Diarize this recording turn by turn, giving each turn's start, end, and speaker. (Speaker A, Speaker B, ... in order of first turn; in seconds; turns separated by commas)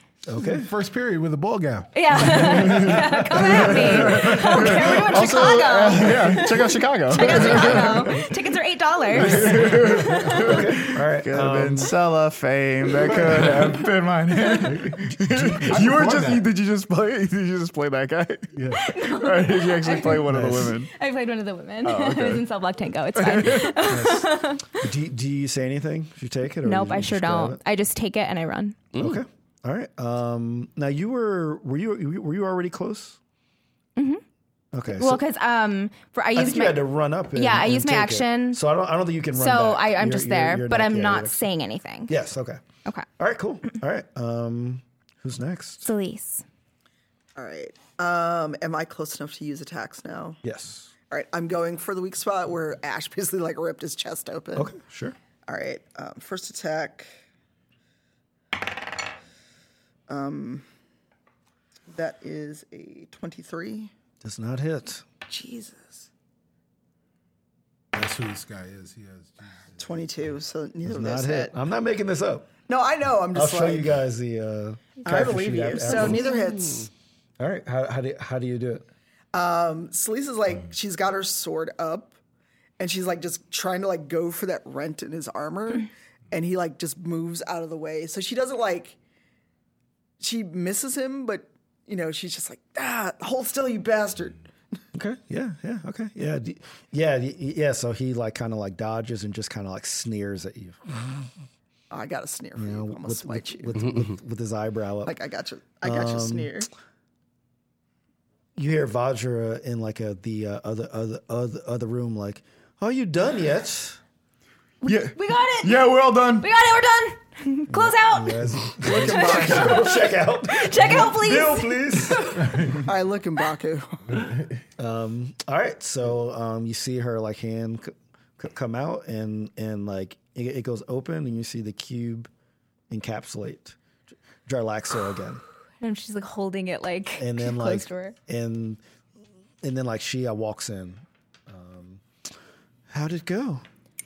Speaker A: 0.2-0.7, Speaker B: 0.4-5.2, Speaker C: 1.9-10.5, Speaker D: 3.5-8.2, Speaker D: 9.1-20.9, Speaker B: 9.3-10.3, Speaker A: 10.3-11.9, Speaker B: 13.1-13.8, Speaker B: 14.6-16.4, Speaker B: 18.5-18.9, Speaker C: 18.7-24.8, Speaker A: 20.3-20.8, Speaker D: 21.8-22.5, Speaker D: 23.1-23.8, Speaker A: 23.9-27.6, Speaker C: 26.6-28.8, Speaker A: 28.9-33.2, Speaker C: 34.0-34.2, Speaker A: 34.7-35.2, Speaker C: 34.9-38.6, Speaker A: 36.4-41.5, Speaker C: 39.4-42.1, Speaker A: 42.1-42.6, Speaker A: 43.2-45.9, Speaker C: 45.8-46.4, Speaker E: 47.3-50.4, Speaker A: 50.4-50.9, Speaker E: 51.1-54.8, Speaker A: 54.5-55.1, Speaker E: 55.5-57.1, Speaker E: 60.1-60.6, Speaker E: 61.9-63.9, Speaker A: 64.2-65.0, Speaker E: 65.3-66.1, Speaker B: 67.9-69.8, Speaker E: 69.8-71.5, Speaker A: 70.8-72.5, Speaker E: 72.7-73.9, Speaker A: 73.3-76.3, Speaker E: 75.0-76.9, Speaker A: 77.4-78.8, Speaker E: 79.3-82.2, Speaker E: 82.8-89.0, Speaker E: 90.2-94.4, Speaker A: 94.9-101.3, Speaker E: 101.9-103.9, Speaker A: 102.5-105.1, Speaker E: 105.0-106.7, Speaker A: 105.8-106.6, Speaker A: 108.5-114.0, Speaker C: 114.8-122.7, Speaker D: 114.8-116.5, Speaker A: 117.7-122.7, Speaker E: 118.8-120.1, Speaker B: 122.5-122.8, Speaker E: 122.8-124.2, Speaker A: 124.8-132.3, Speaker A: 132.9-133.8, Speaker A: 134.4-135.4, Speaker C: 135.8-138.1, Speaker A: 137.2-138.8, Speaker A: 139.6-142.0, Speaker A: 142.9-143.6